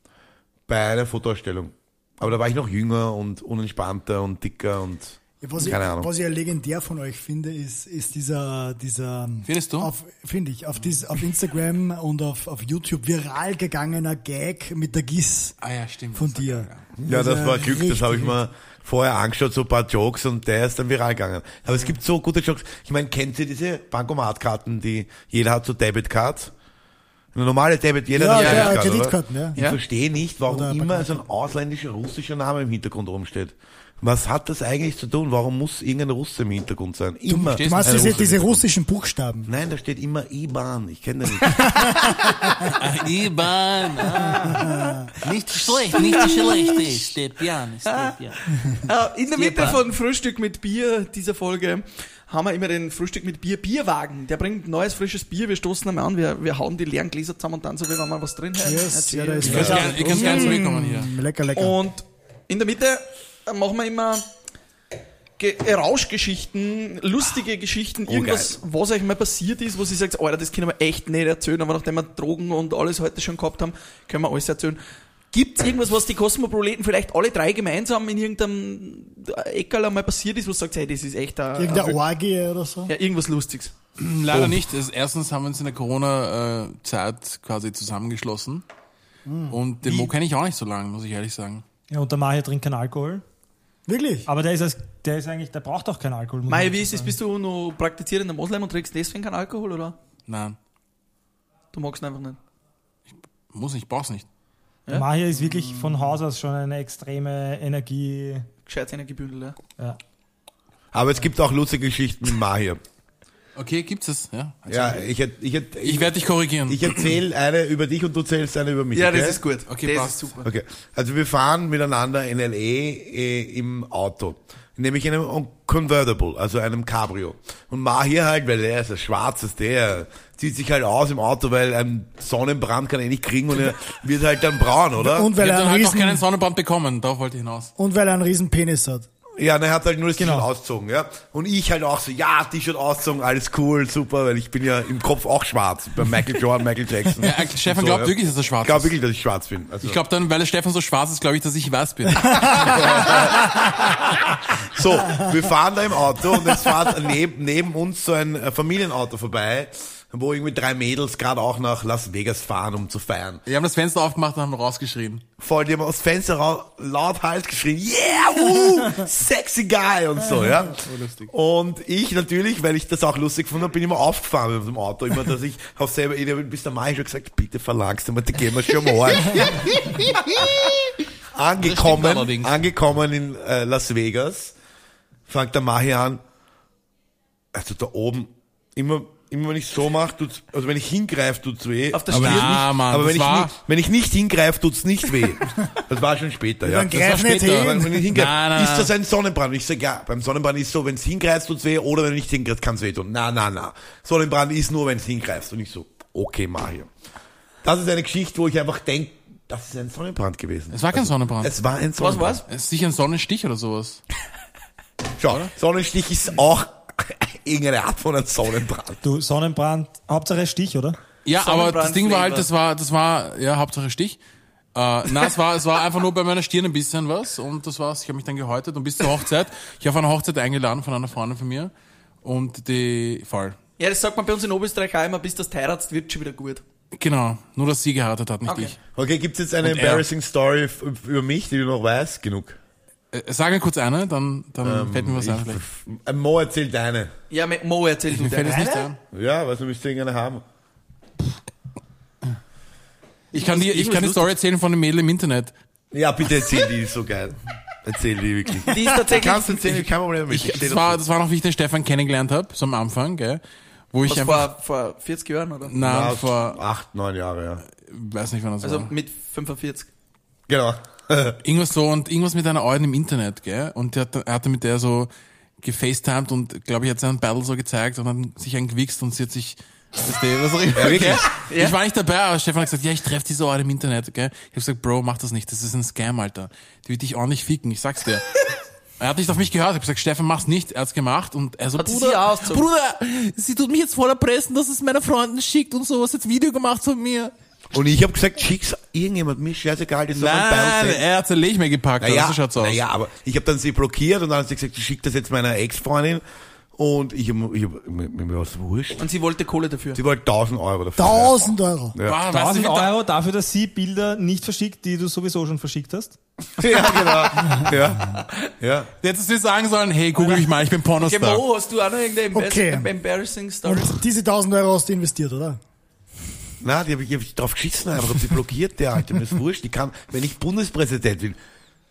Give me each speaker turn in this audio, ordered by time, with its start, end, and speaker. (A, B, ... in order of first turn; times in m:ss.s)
0:00.7-0:06.1 A
0:05.4-0:15.6 B
0:09.4-0:09.9 C
0:15.6-0:16.8 C
0:16.2-0:18.4 B
0:17.0-0:26.5 A
0:27.3-0:38.6 A
0:28.1-0:29.6 B
0:28.3-0:28.8 C
0:30.5-0:31.2 B
0:37.3-0:39.5 B
0:37.5-0:38.5 C
0:39.5-0:41.7 A
0:41.4-0:42.7 B
0:42.9-0:44.7 D
0:44.3-0:45.1 B
0:45.2-0:48.4 D
0:45.9-0:47.1 E
0:47.8-0:48.3 E
0:48.8-1:00.8 E
0:49.3-0:49.8 D
0:58.6-1:01.8 B
0:59.4-1:00.2 A
0:59.4-1:01.2 C
1:01.5-1:04.2 E
1:05.4-1:14.8 E
1:08.1-1:08.6 A
1:15.3-1:22.0 E
1:21.6-1:22.9 B
1:22.9-1:23.7 E
1:24.0-1:28.6 C
1:29.3-1:29.6 B
1:29.5-1:31.6 C
1:29.8-1:30.1 E
1:31.9-1:33.2 F
1:33.9-1:34.3 B
1:34.3-1:37.2 F
1:36.5-1:40.0 E
1:40.3-1:40.6 C
1:41.7-1:42.4 E
1:43.5-1:44.3 C
1:44.9-1:48.5 F
1:48.6-1:49.6 E
1:50.9-1:52.8 A
1:53.6-1:55.1 C
1:54.7-1:56.1 A
1:55.8-1:57.2 C
1:56.7-1:59.4 A
1:58.9-2:00.5 E
1:59.7-2:00.4 C
2:00.4-2:15.3 A
2:15.0-2:16.2 B
2:15.4-2:17.7 C
2:17.8-2:19.1 B
2:19.4-2:30.0 A
2:20.2-2:20.5 F
2:27.2-2:29.0 C
2:29.8-2:33.1 C
2:32.4-2:34.0 A
2:34.6-2:43.4 A
2:43.5-2:45.2 C
2:45.4-2:59.7 A
2:50.8-2:51.3 C
2:59.9-3:00.4 D
3:01.3-3:04.6 A
3:01.6-3:02.6 D
3:05.3-3:06.2 A
3:07.5-3:26.9 A
3:11.9-3:12.6 E
3:12.1-3:13.5 C
3:16.6-3:18.1 B
3:16.9-3:18.9 C
3:27.6-3:32.4 A
3:30.7-3:31.6 C
3:32.0-3:32.4 E
3:32.5-3:34.0 C
3:35.2-3:39.0 A
3:35.3-3:35.5 C
3:39.0-3:41.0 F
3:41.2-3:44.2 C
3:41.4-3:42.5 E
3:44.8-3:51.7 C
3:52.2-3:53.6 C
3:53.8-3:56.6 E
3:57.0-3:58.8 C
3:58.4-3:58.8 E
3:59.0-4:02.6 A
3:59.6-4:00.0 C
4:03.1-4:05.6 C
4:04.6-4:07.1 A
4:07.3-4:08.9 E
4:08.1-4:09.0 C
4:09.1-4:10.4 A
4:13.3-4:15.5 C
4:13.3-4:14.3 E
4:15.9-4:21.0 A
4:18.7-4:19.9 E
4:20.3-4:23.4 C
4:23.9-4:24.5 C
4:24.0-4:25.8 E
4:25.7-4:26.6 C
4:25.8-4:27.6 A
4:27.8-4:28.9 C
4:28.6-4:29.9 E
4:30.5-4:31.4 A
4:31.4-4:35.1 C
4:35.6-4:57.3 C
4:40.8-4:41.2 A
4:41.4-4:41.8 E
4:51.8-4:52.7 E
4:53.4-4:56.0 D
4:56.8-4:57.3 D
4:57.7-5:01.0 A
5:00.1-5:02.8 C
5:02.0-5:06.2 A
5:06.8-5:09.0 A
5:09.0-5:10.0 E
5:10.0-5:12.2 A
5:11.0-5:12.0 B
5:12.1-5:13.0 C
5:12.3-5:16.2 F
5:16.6-5:18.9 A
5:19.0-5:21.4 C
5:21.0-5:24.0 E
5:22.3-5:22.9 B
5:23.6-5:25.6 B
5:26.6-5:31.4 A